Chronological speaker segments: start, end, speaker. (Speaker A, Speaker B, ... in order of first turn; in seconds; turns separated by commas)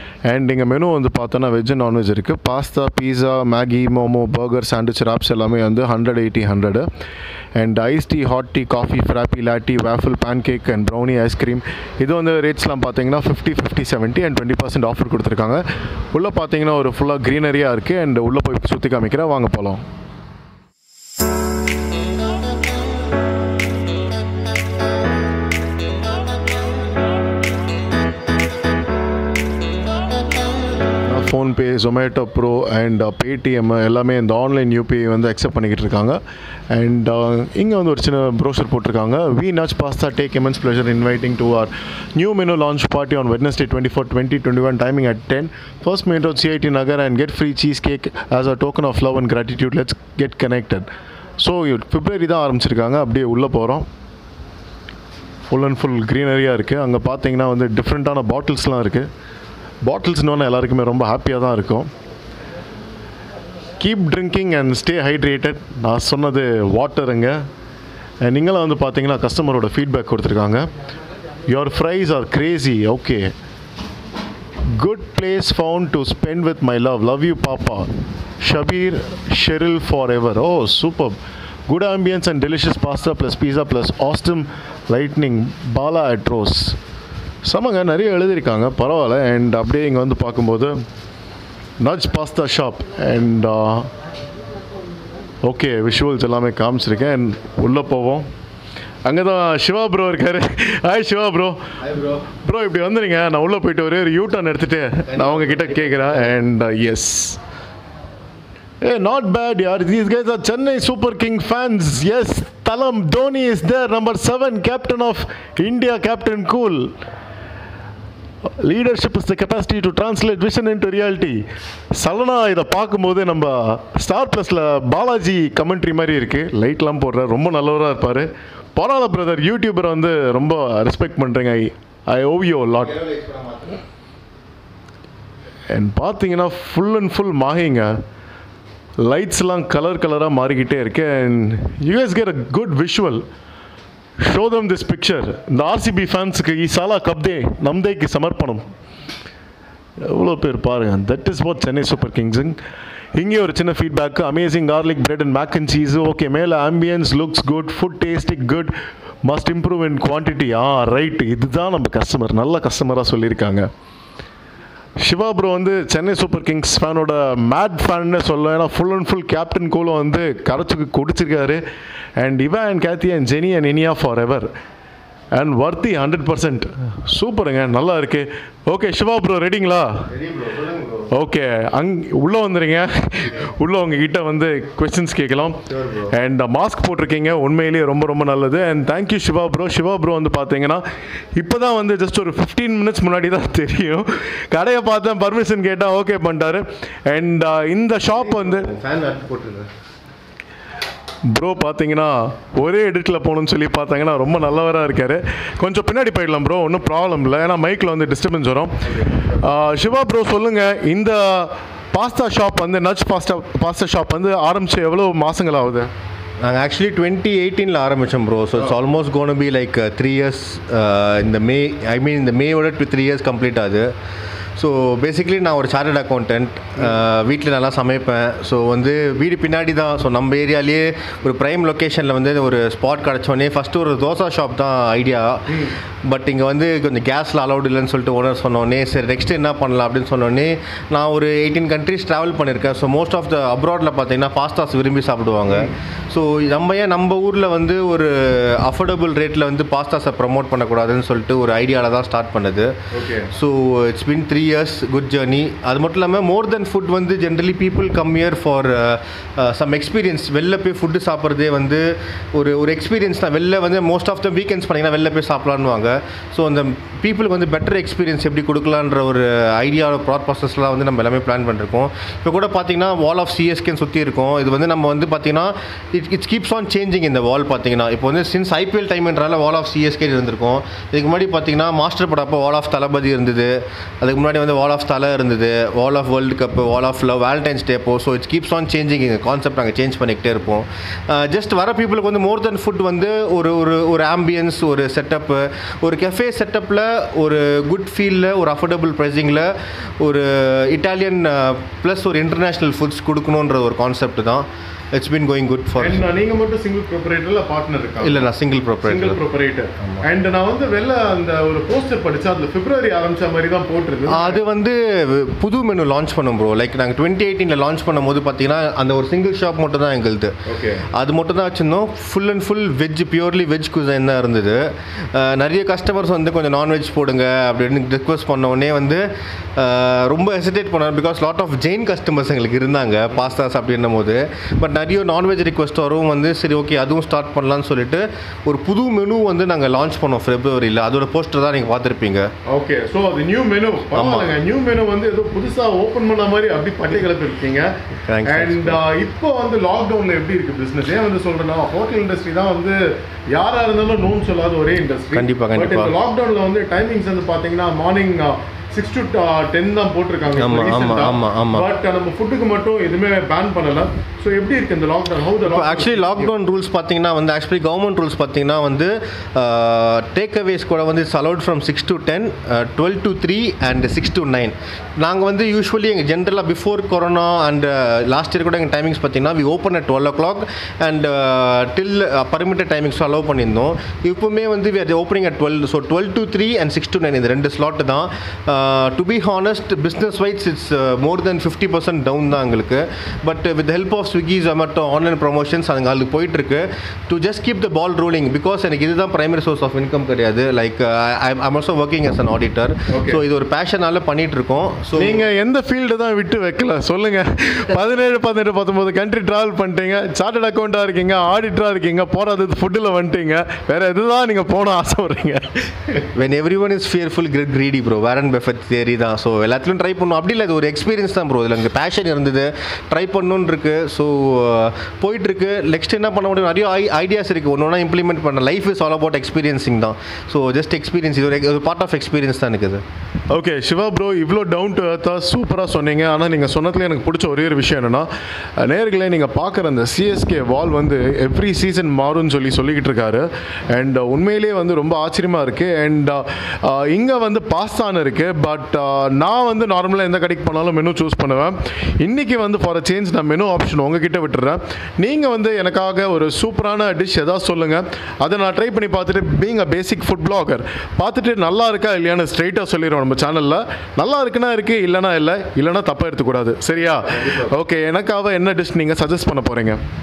Speaker A: 0.3-6.8, Speaker A: 7.6-15.6, Speaker A: 16.1-19.8, Speaker A: 31.1-36.2, Speaker A: 36.7-50.9, Speaker A: 51.4-53.9, Speaker A: 55.5-59.1, Speaker A: 59.9-61.9, Speaker A: 63.8-67.4, Speaker A: 68.2-70.6, Speaker A: 71.5-73.3, Speaker A: 74.8-77.9, Speaker A: 78.4-81.2, Speaker A: 81.7-86.8, Speaker A: 87.5-90.7, Speaker A: 91.8-93.9, Speaker A: 95.4-98.2, Speaker A: 99.0-101.7, Speaker B: 101.8-102.2, Speaker A: 102.3-107.4, Speaker B: 105.1-106.3, Speaker A: 108.8-116.9, Speaker A: 118.6-121.4, Speaker A: 121.9-133.0, Speaker B: 132.8-133.8, Speaker A: 135.7-137.9, Speaker A: 139.0-143.2, Speaker A: 144.2-148.6, Speaker A: 150.0-152.6, Speaker A: 153.2-158.7, Speaker A: 159.2-163.7, Speaker A: 165.0-171.6, Speaker A: 172.2-174.5, Speaker A: 175.3-180.1, Speaker B: 180.1-181.1, Speaker A: 181.1-190.8, Speaker B: 185.7-186.1, Speaker A: 191.3-198.7, Speaker B: 198.1-199.7, Speaker A: 201.3-215.9, Speaker B: 208.9-209.4, Speaker B: 216.4-223.9, Speaker B: 224.6-252.8, Speaker A: 252.9-253.3, Speaker B: 253.3-306.0, Speaker A: 305.8-308.3, Speaker B: 308.0-309.2, Speaker A: 308.8-314.4, Speaker B: 314.1-320.4, Speaker A: 320.4-320.9, Speaker B: 320.9-342.3, Speaker A: 342.4-347.7, Speaker B: 343.9-344.3, Speaker B: 348.0-348.8, Speaker A: 348.2-352.8, Speaker A: 353.3-366.3, Speaker B: 355.1-355.9, Speaker B: 360.3-361.6, Speaker B: 365.4-405.2, Speaker A: 402.9-403.2, Speaker A: 404.9-416.0, Speaker B: 416.1-432.8, Speaker A: 433.3-438.1, Speaker A: 438.6-469.8, Speaker B: 467.2-467.4